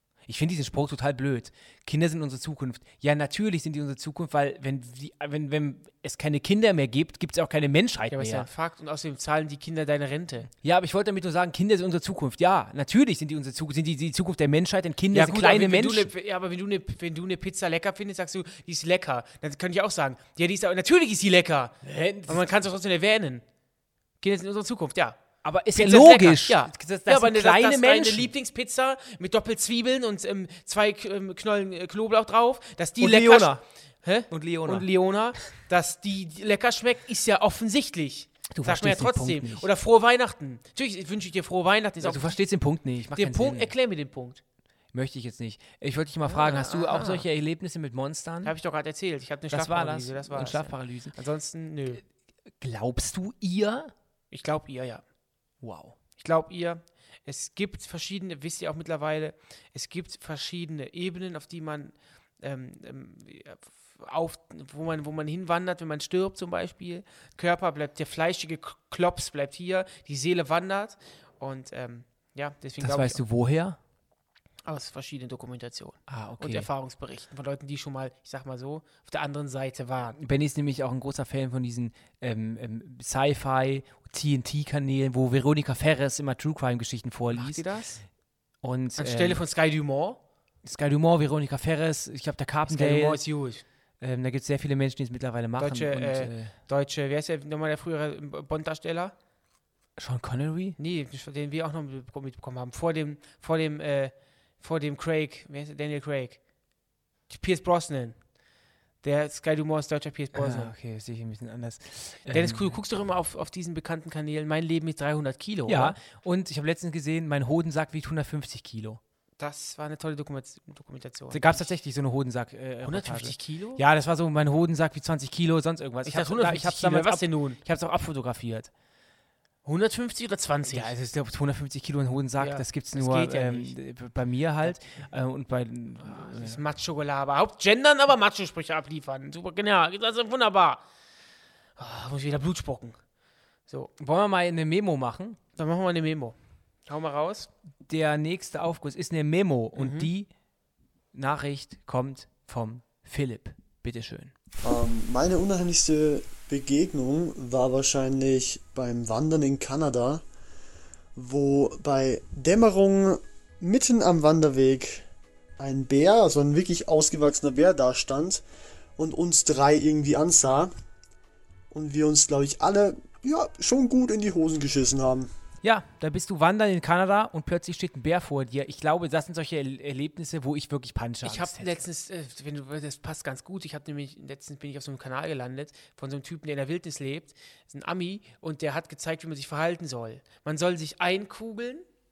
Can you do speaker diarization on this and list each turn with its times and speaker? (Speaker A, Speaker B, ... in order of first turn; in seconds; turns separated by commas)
Speaker A: 0.3-8.5, Speaker B: 8.1-10.5, Speaker A: 10.6-16.1, Speaker B: 15.1-23.4, Speaker A: 21.8-22.4, Speaker B: 24.2-25.2, Speaker A: 25.4-28.3, Speaker B: 25.7-42.4, Speaker A: 33.0-33.6, Speaker A: 34.3-34.9, Speaker A: 38.5-39.7, Speaker A: 42.0-43.7, Speaker B: 43.1-44.4, Speaker A: 44.9-48.5, Speaker B: 46.2-47.2, Speaker B: 48.4-52.0, Speaker A: 49.5-51.1, Speaker A: 52.6-53.9, Speaker B: 54.3-55.0, Speaker A: 55.6-56.0, Speaker B: 56.2-73.2, Speaker A: 72.8-73.8, Speaker B: 74.6-80.2, Speaker A: 76.1-76.7, Speaker A: 80.2-87.7, Speaker B: 87.3-88.0, Speaker A: 88.6-89.4, Speaker B: 89.0-90.2, Speaker A: 90.6-93.2, Speaker B: 92.7-93.6, Speaker A: 94.0-96.5, Speaker B: 95.6-99.1, Speaker A: 100.0-100.8, Speaker B: 100.8-106.4, Speaker B: 107.3-108.2, Speaker B: 109.0-110.7, Speaker A: 110.3-112.8, Speaker B: 112.3-116.0, Speaker A: 115.7-119.0, Speaker B: 119.4-121.7, Speaker A: 121.3-128.7, Speaker B: 122.8-123.8, Speaker B: 126.0-127.6, Speaker B: 129.6-130.9, Speaker A: 130.7-136.6, Speaker B: 132.4-133.8, Speaker B: 136.0-140.8, Speaker B: 141.8-143.0, Speaker A: 144.0-145.4, Speaker B: 145.6-147.5, Speaker A: 147.8-150.3, Speaker B: 149.8-150.1, Speaker A: 151.1-154.3, Speaker C: 154.6-160.2, Speaker C: 161.1-165.0, Speaker C: 165.6-168.4, Speaker C: 169.0-170.7, Speaker C: 171.7-175.3, Speaker A: 175.6-181.8, Speaker B: 181.2-191.8